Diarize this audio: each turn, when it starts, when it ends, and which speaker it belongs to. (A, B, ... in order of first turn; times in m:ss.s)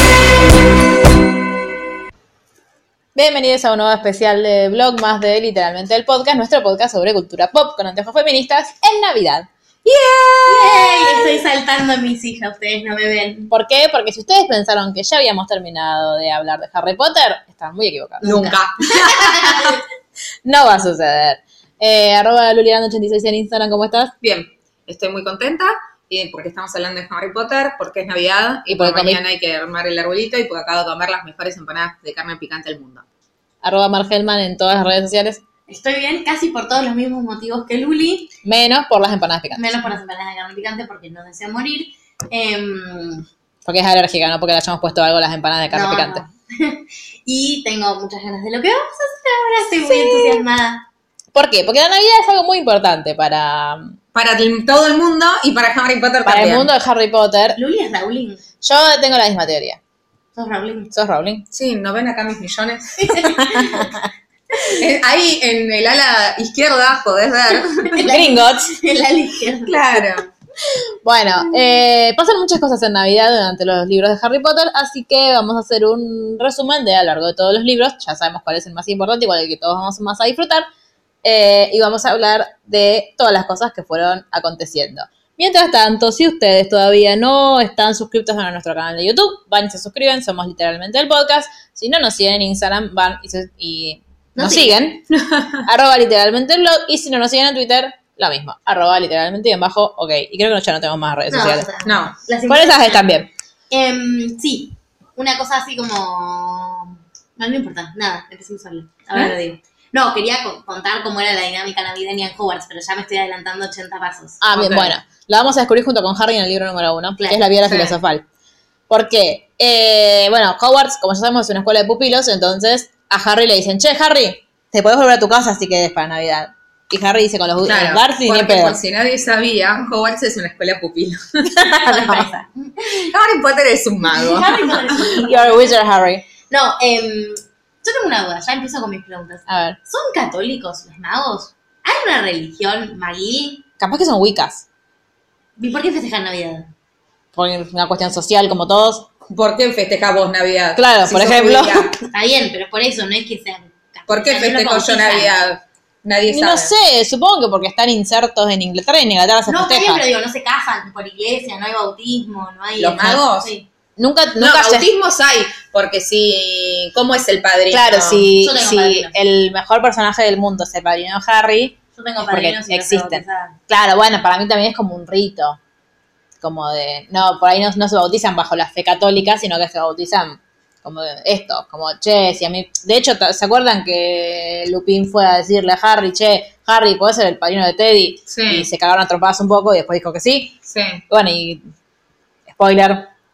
0:03.2-0:11.4 A
0:10.5-0:13.5 B
0:13.5-0:18.6 A
0:18.2-0:19.6 C
0:18.2-0:19.8 B
0:20.4-0:24.1 A
0:24.2-0:33.0 C
0:28.7-0:29.2 A
0:33.6-0:35.4 A
0:35.7-0:38.3 B
0:38.4-0:39.8 A
0:39.6-0:43.2 B
0:43.6-0:46.2 A
0:45.7-0:50.8 B
0:49.9-0:50.4 A
0:51.3-0:54.0 A
0:54.1-0:56.7 C
0:56.2-0:57.6 A
0:57.6-0:58.4 B
0:58.6-0:59.8 A
1:00.4-1:00.9 B
1:00.9-1:01.5 A
1:01.5-1:03.1 C
1:03.0-1:04.0 B
1:03.4-1:03.9 A
1:04.7-1:08.0 C
1:07.8-1:10.0 B
1:08.1-1:08.7 A
1:09.6-1:10.3 C
1:11.0-1:20.7 A
1:21.2-1:35.1 A
1:34.4-1:34.9 B
1:35.3-1:35.6 C
1:35.6-1:41.7 A
1:41.3-1:43.1 B
1:41.8-1:42.2 C
1:42.5-1:43.3 A
1:43.7-1:55.0 B
1:54.4-1:58.2 A
1:57.2-1:57.5 B
1:57.6-1:58.0 C
1:58.9-2:08.8 A
2:07.6-2:11.5 C
2:11.5-2:12.3 A
2:11.6-2:13.1 B
2:12.9-2:15.0 C
2:14.0-2:15.7 B
2:14.9-2:16.2 A
2:16.5-2:23.6 B
2:19.5-2:19.8 A
2:23.8-2:24.6 A
2:25.6-2:26.7 B
2:27.4-2:29.1 A
2:29.3-2:31.9 C
2:30.8-2:31.9 A
2:32.0-2:35.4 B
2:34.1-2:36.7 C
2:36.3-2:40.0 A
2:39.5-2:43.7 B
2:42.8-2:43.5 C
2:44.0-2:44.9 A
2:44.4-2:48.3 C
2:47.7-2:55.6 A
2:48.4-2:49.2 B
2:52.0-2:53.6 B
2:56.4-3:10.6 A
3:08.3-3:08.7 C
3:10.7-3:11.0 C
3:11.1-3:11.6 A
3:12.5-3:13.1 A